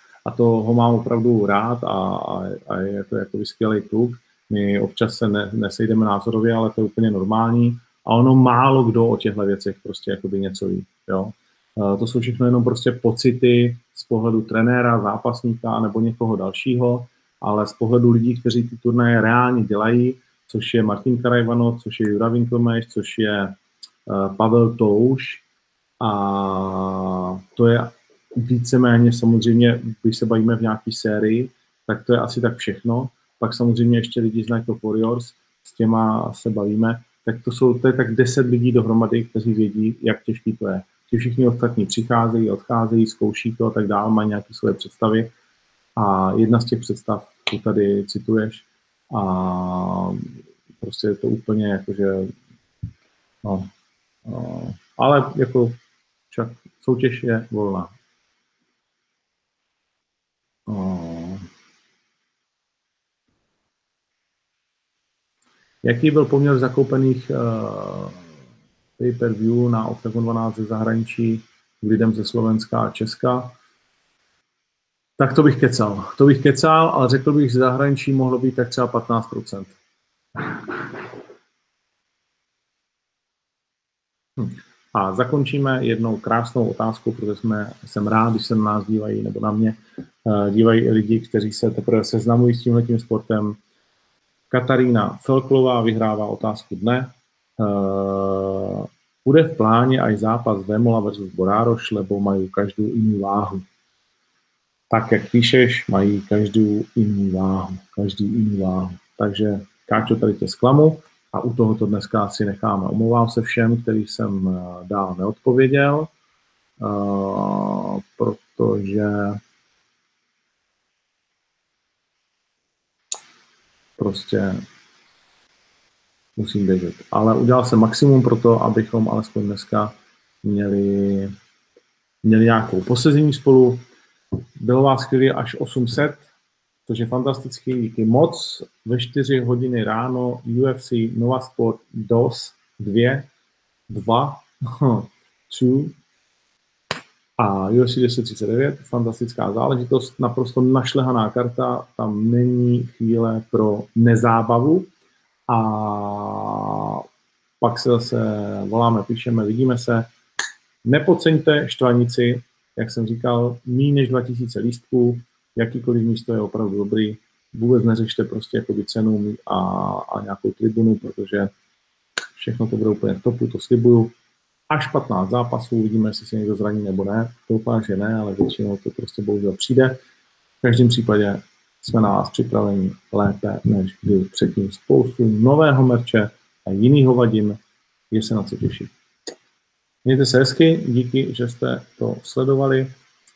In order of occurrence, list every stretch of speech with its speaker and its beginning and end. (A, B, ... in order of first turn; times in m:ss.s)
0:00.2-0:25.4 A
0:26.0-0:45.3 A
0:46.0-0:52.3 A
0:53.4-0:53.7 A
0:54.2-0:55.8 A
0:56.3-0:57.9 A
1:00.7-1:01.4 A
1:05.8-1:08.2 A
1:09.0-1:13.5 A
1:15.2-1:19.8 A
1:24.4-1:33.6 A
1:34.5-1:43.6 A
1:44.9-1:56.1 A
1:56.8-1:59.4 A
2:04.0-2:04.6 A
2:06.4-2:11.3 A
2:12.2-2:13.8 A
2:14.6-2:16.2 A
2:16.9-2:23.3 A
2:23.9-2:26.0 A
2:27.4-2:34.9 A
2:35.5-2:37.0 A
2:37.6-2:40.1 A
2:40.8-2:51.5 A
2:52.4-2:54.1 A
2:54.7-3:00.0 A
3:00.6-3:07.6 A
3:08.1-3:08.9 A
3:10.0-3:12.9 A